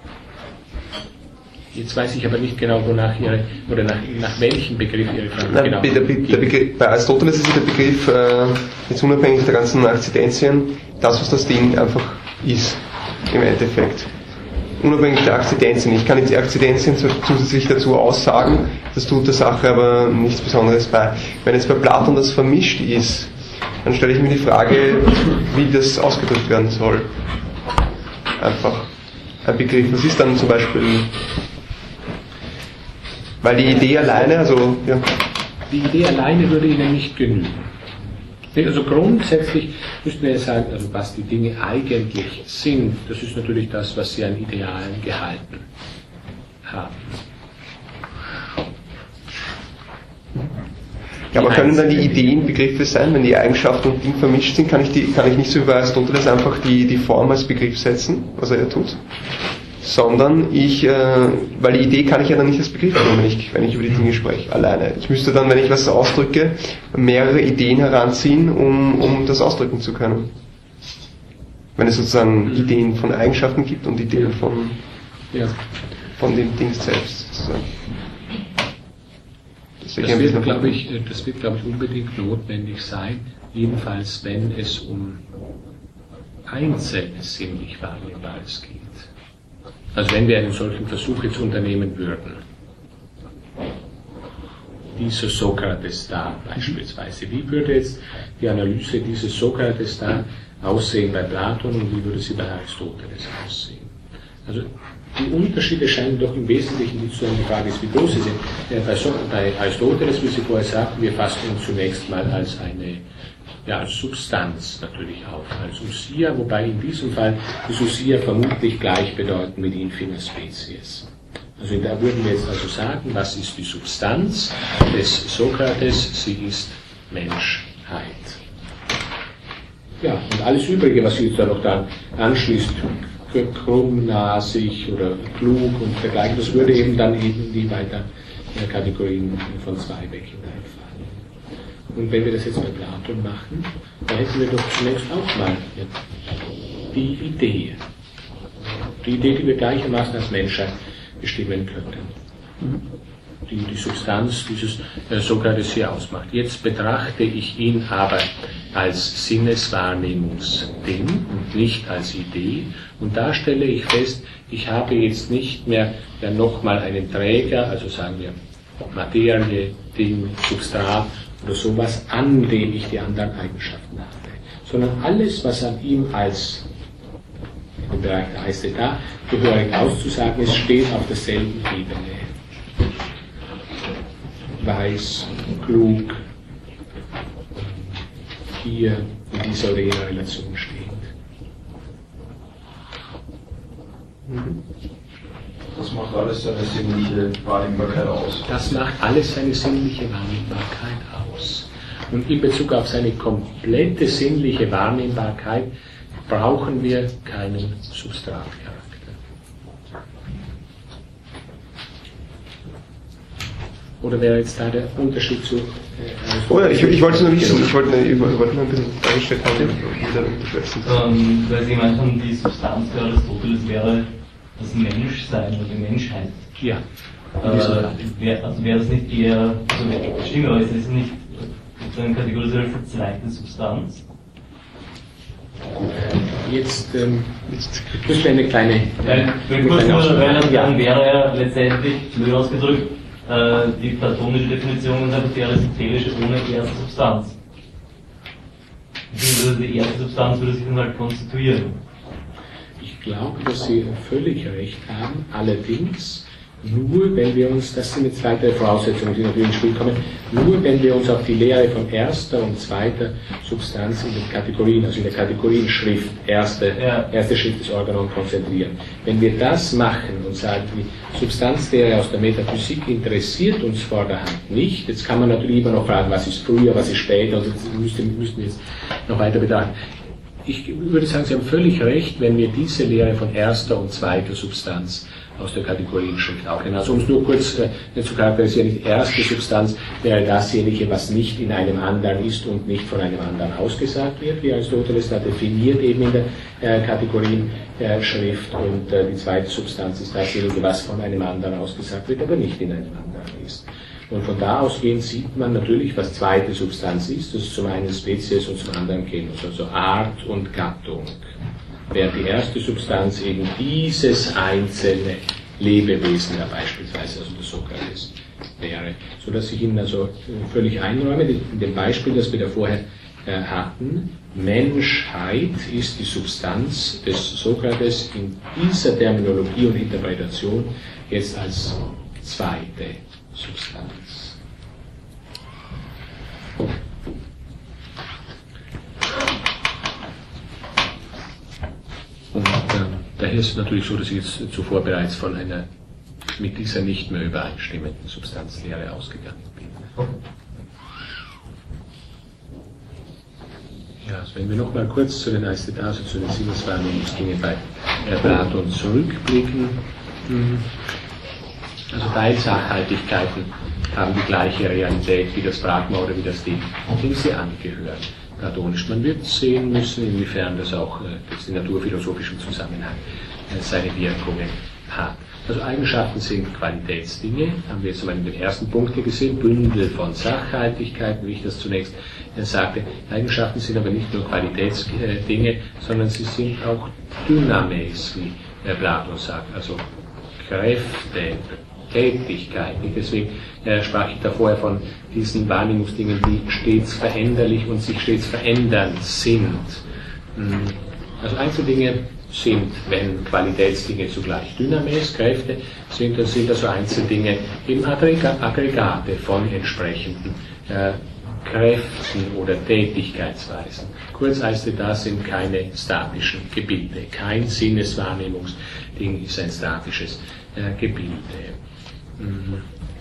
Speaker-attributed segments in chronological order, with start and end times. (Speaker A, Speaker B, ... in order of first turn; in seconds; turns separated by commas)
Speaker A: 1.7-6.5, Speaker B: 5.5-14.2, Speaker B: 14.8-27.5, Speaker B: 28.4-31.2, Speaker B: 33.4-35.2, Speaker A: 35.7-37.7, Speaker A: 38.5-45.6, Speaker A: 46.6-47.2, Speaker B: 51.3-70.3, Speaker A: 51.3-52.3, Speaker B: 71.8-74.8, Speaker B: 76.1-77.9, Speaker B: 79.8-80.8, Speaker A: 80.0-85.2, Speaker A: 86.5-89.1, Speaker A: 89.9-92.4, Speaker A: 95.0-103.9, Speaker A: 104.5-113.0, Speaker A: 113.7-128.4, Speaker A: 130.0-141.3, Speaker A: 141.9-146.0, Speaker A: 146.9-147.8, Speaker A: 149.0-152.2, Speaker A: 153.5-168.4, Speaker A: 168.9-176.7, Speaker A: 177.8-182.3, Speaker A: 184.6-186.2, Speaker A: 187.6-188.0, Speaker A: 188.6-191.1, Speaker B: 194.3-194.5, Speaker C: 195.7-198.5, Speaker A: 198.5-205.7, Speaker A: 206.3-209.2, Speaker A: 214.0-217.7, Speaker B: 216.5-220.9, Speaker D: 220.8-226.5, Speaker A: 226.6-226.8, Speaker D: 227.4-234.0, Speaker A: 227.4-228.1, Speaker A: 235.8-240.8, Speaker B: 237.5-237.9, Speaker D: 239.0-247.4, Speaker D: 249.1-251.8, Speaker A: 252.8-279.7, Speaker D: 266.8-267.1, Speaker A: 280.4-311.2, Speaker A: 311.9-334.4, Speaker A: 342.3-345.7, Speaker A: 346.4-350.0, Speaker A: 354.0-360.8, Speaker A: 361.9-389.9, Speaker A: 390.4-399.8, Speaker A: 400.4-421.6, Speaker A: 422.2-422.7